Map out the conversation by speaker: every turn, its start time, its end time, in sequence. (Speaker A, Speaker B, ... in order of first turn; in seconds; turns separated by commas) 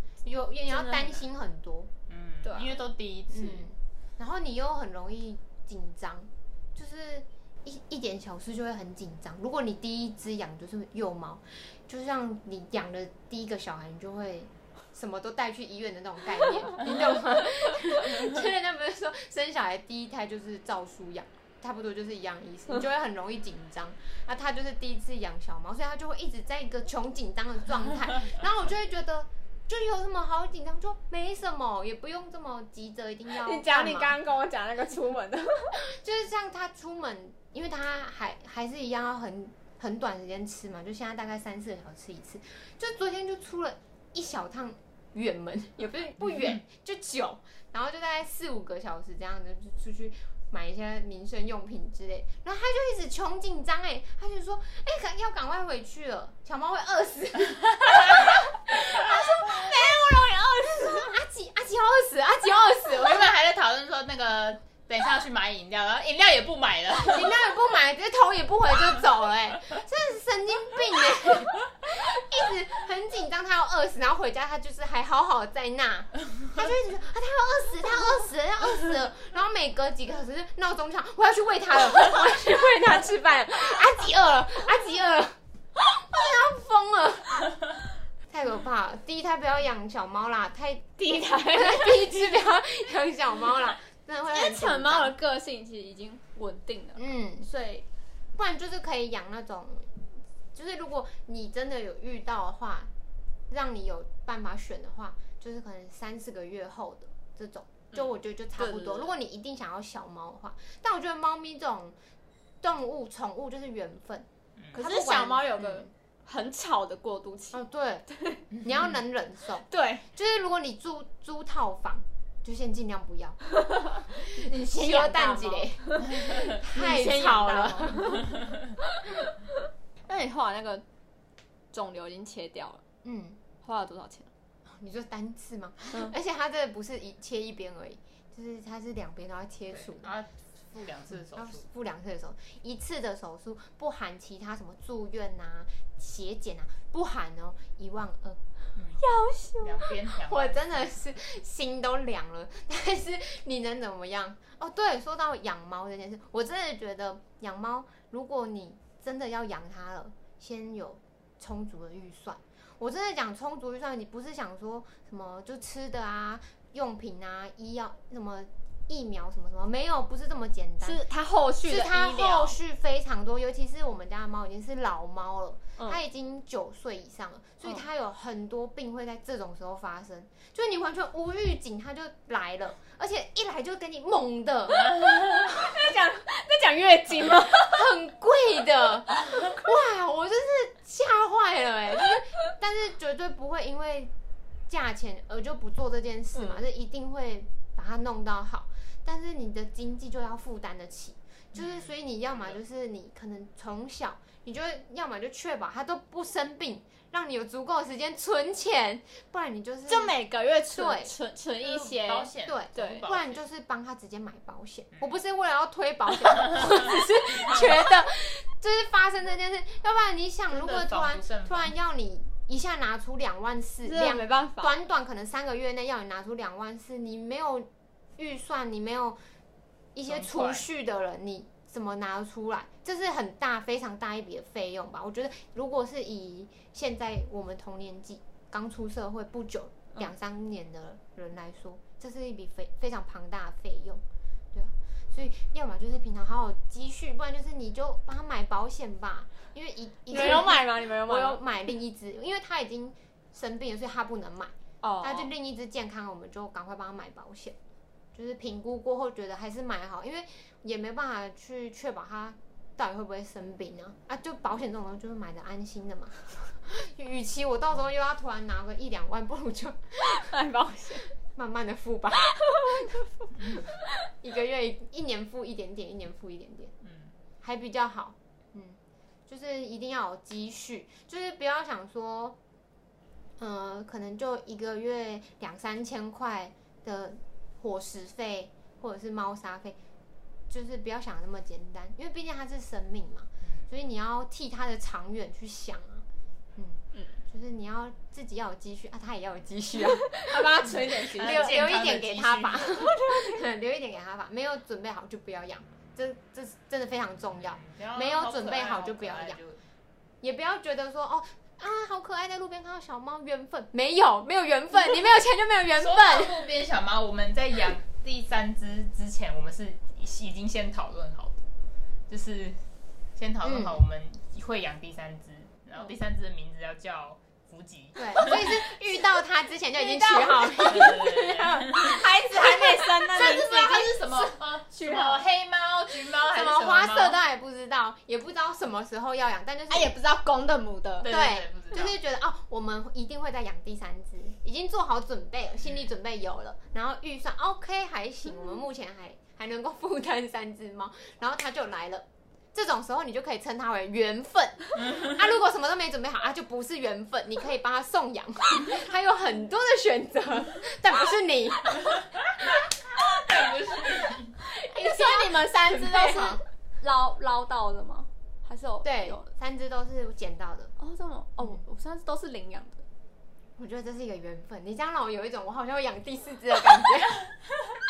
Speaker A: 0.2-1.9, Speaker B: 0.7-1.2, Speaker C: 2.1-3.6, Speaker B: 2.4-2.8, Speaker A: 3.3-34.1, Speaker B: 33.3-35.8, Speaker A: 35.9-63.3, Speaker C: 63.0-67.3, Speaker A: 67.0-87.5, Speaker A: 88.3-91.0, Speaker B: 91.0-92.4, Speaker A: 91.5-95.1, Speaker B: 94.3-97.8, Speaker A: 97.0-97.5, Speaker A: 98.3-102.9, Speaker A: 103.5-111.9, Speaker B: 108.6-109.1, Speaker A: 112.6-115.9, Speaker B: 114.7-118.5, Speaker A: 117.5-118.1, Speaker A: 118.6-123.4, Speaker B: 119.7-120.1, Speaker B: 124.0-128.3, Speaker A: 124.2-128.3, Speaker B: 130.1-130.8, Speaker B: 131.7-132.8, Speaker A: 133.0-133.4, Speaker B: 133.6-134.3, Speaker A: 134.7-140.1, Speaker C: 139.7-141.7, Speaker A: 141.3-148.4, Speaker C: 148.8-149.0, Speaker B: 149.0-149.9, Speaker C: 149.6-150.9, Speaker A: 150.2-171.0, Speaker B: 170.8-172.6, Speaker A: 171.6-184.9, Speaker B: 184.8-187.9, Speaker A: 187.6-194.1, Speaker A: 194.7-210.1, Speaker B: 196.3-196.6, Speaker C: 201.5-202.6, Speaker B: 209.9-213.1, Speaker A: 210.7-211.1, Speaker C: 211.6-213.4, Speaker A: 212.4-229.2, Speaker C: 220.5-221.7, Speaker B: 223.8-224.7, Speaker A: 229.9-244.0, Speaker C: 230.1-230.7, Speaker A: 244.5-257.6, Speaker B: 250.1-251.4, Speaker B: 254.8-255.3, Speaker A: 258.1-270.3, Speaker B: 270.1-271.1, Speaker A: 271.2-273.0, Speaker A: 274.2-276.7, Speaker C: 276.8-277.1, Speaker A: 277.4-282.4, Speaker A: 283.4-289.8, Speaker A: 290.5-309.4, Speaker C: 293.4-293.7, Speaker B: 300.1-301.7, Speaker C: 301.1-302.7, Speaker B: 302.7-303.4, Speaker C: 307.5-309.6, Speaker A: 310.2-316.4, Speaker C: 315.8-321.4, Speaker C: 322.1-322.6, Speaker C: 323.1-328.5, Speaker A: 323.4-323.8, Speaker A: 327.9-333.7, Speaker B: 329.7-331.0, Speaker C: 330.7-332.0, Speaker B: 331.7-335.2, Speaker C: 333.1-337.2, Speaker A: 336.2-339.9, Speaker B: 339.7-341.1, Speaker C: 341.0-341.9, Speaker A: 341.0-362.0, Speaker C: 354.8-355.2, Speaker C: 362.9-364.4, Speaker A: 364.7-366.4, Speaker B: 364.7-369.3, Speaker A: 368.8-370.7, Speaker B: 370.8-372.8, Speaker A: 373.6-377.3